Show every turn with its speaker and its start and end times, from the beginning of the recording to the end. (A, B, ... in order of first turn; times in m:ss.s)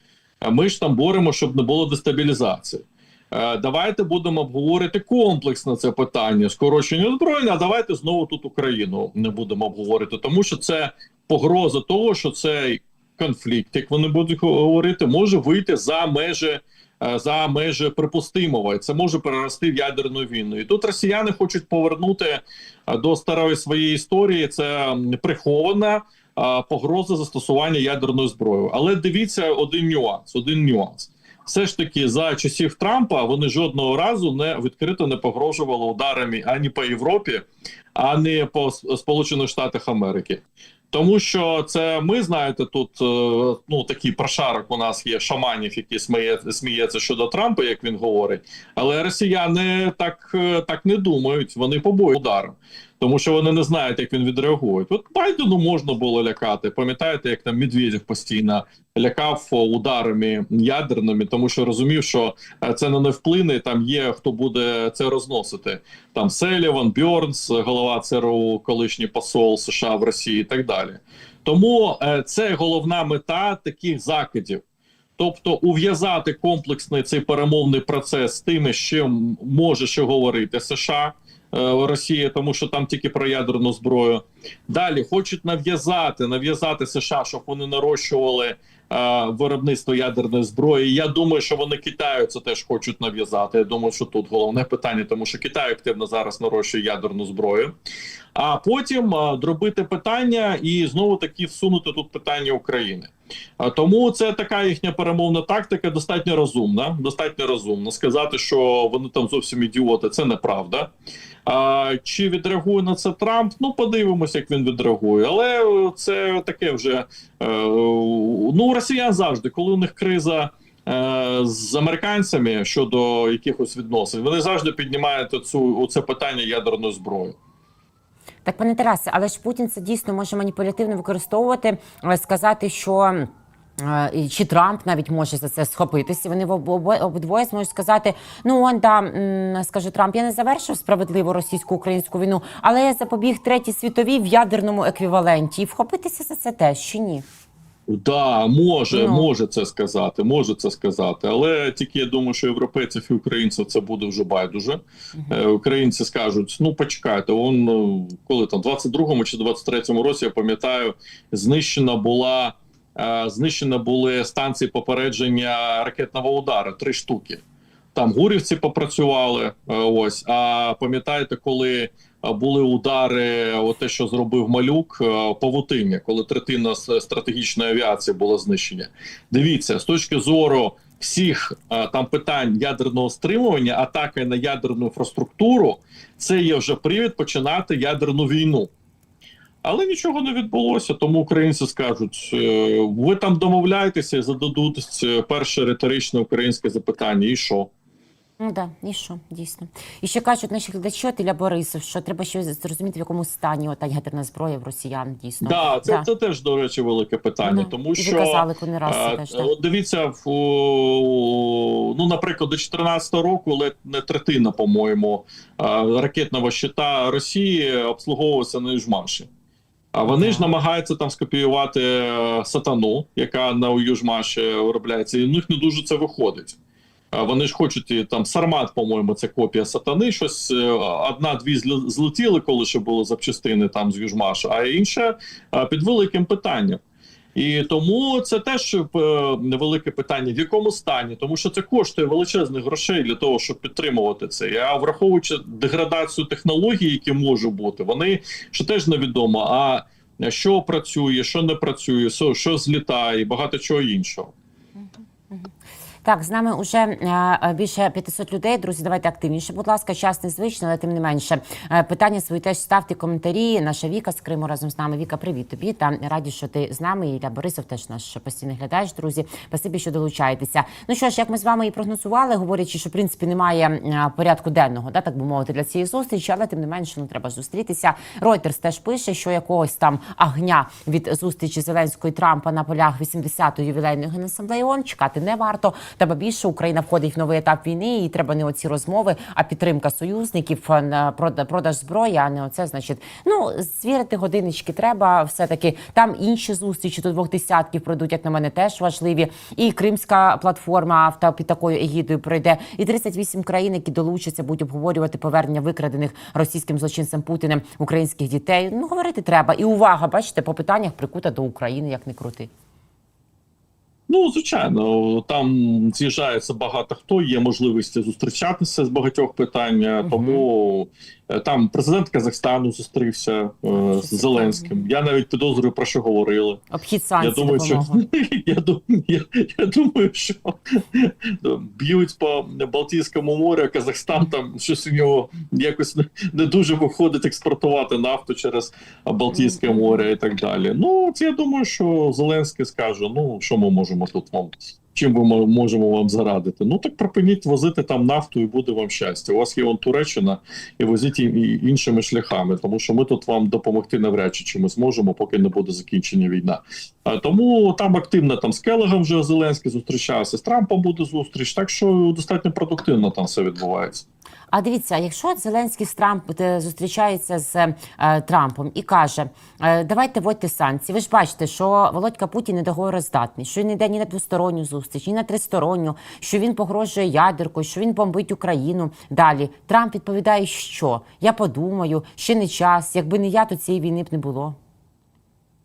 0:00.4-1:14.6 A
1:15.2-1:37.7 A
1:38.4-1:50.9 A
1:51.5-2:07.4 A
2:08.5-2:27.3 B
2:27.9-2:47.4 A
2:28.9-2:29.3 B
2:48.0-3:08.7 A
3:09.6-3:17.7 A
3:18.4-3:26.1 B
3:25.4-3:39.3 A
3:27.4-3:29.5 B
3:39.9-3:46.6 A
3:40.1-3:40.5 B
3:47.1-3:56.8 A
3:57.4-4:14.3 A
4:16.0-5:12.5 B
5:14.1-5:26.6 A
5:20.0-5:20.4 B
5:23.7-5:24.7 B
5:26.7-5:28.0 B
5:27.2-6:04.0 A
5:39.3-5:40.0 B
6:04.5-6:24.6 B